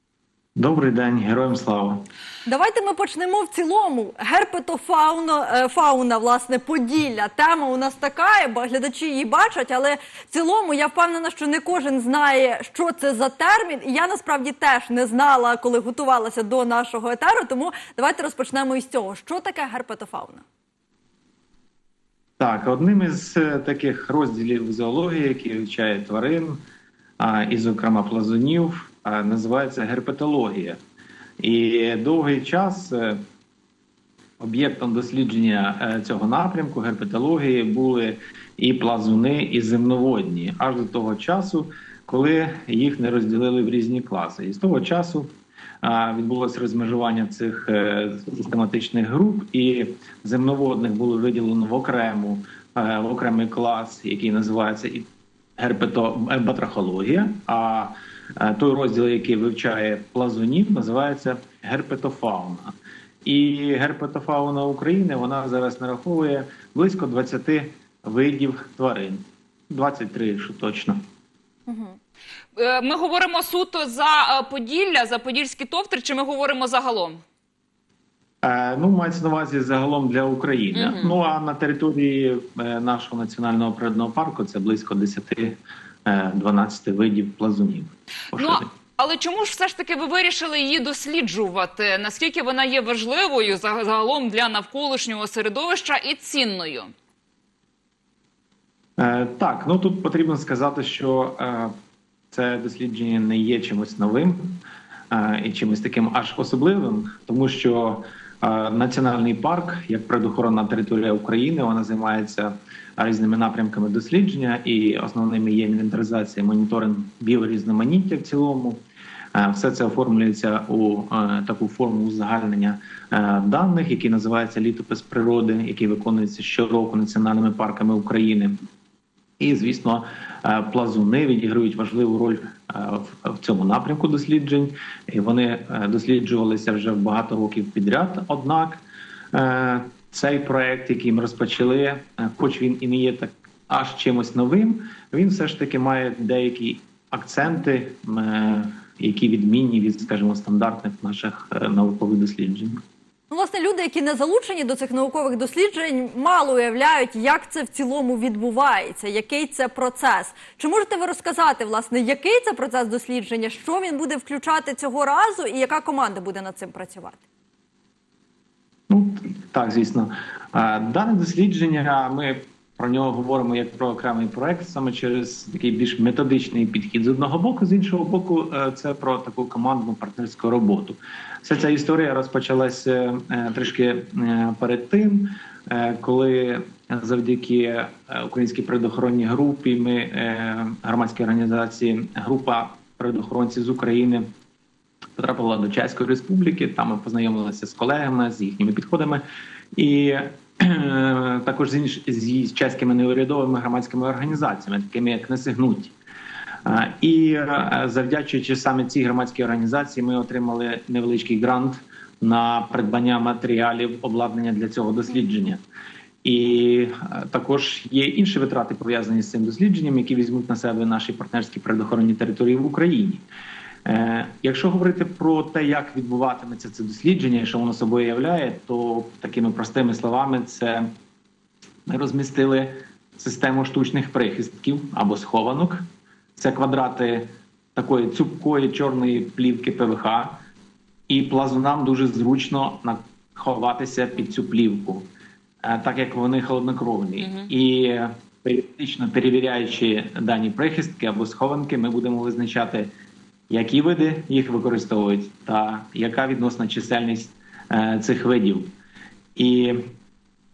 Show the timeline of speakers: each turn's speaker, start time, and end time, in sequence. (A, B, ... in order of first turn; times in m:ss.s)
0:00.6-0:02.1 A
0:02.5-0:20.4 B
0:22.4-0:26.6 A
0:27.2-0:30.8 A
0:31.4-0:33.2 A
0:34.4-0:45.3 A
0:45.8-0:55.1 A
0:55.6-1:02.7 A
1:03.2-1:11.0 A
1:11.7-1:12.0 B
1:12.6-1:17.2 C
1:18.4-1:28.7 A
1:20.7-1:21.2 C
1:28.3-1:36.9 C
1:39.0-1:41.7 A
1:42.3-1:58.8 A
1:59.4-2:08.6 A
2:09.4-2:32.8 A
2:33.3-2:47.2 B
2:48.9-3:14.3 A
3:15.2-3:19.2 A
3:19.8-3:25.9 A
3:26.6-3:35.6 A
3:36.2-3:43.2 A
3:43.9-3:50.9 A
3:51.9-3:55.8 A
3:56.4-4:00.4 A
4:01.1-4:05.1 A
4:05.6-4:12.9 A
4:07.2-4:07.5 C
4:13.5-4:18.7 A
4:19.4-4:19.9 A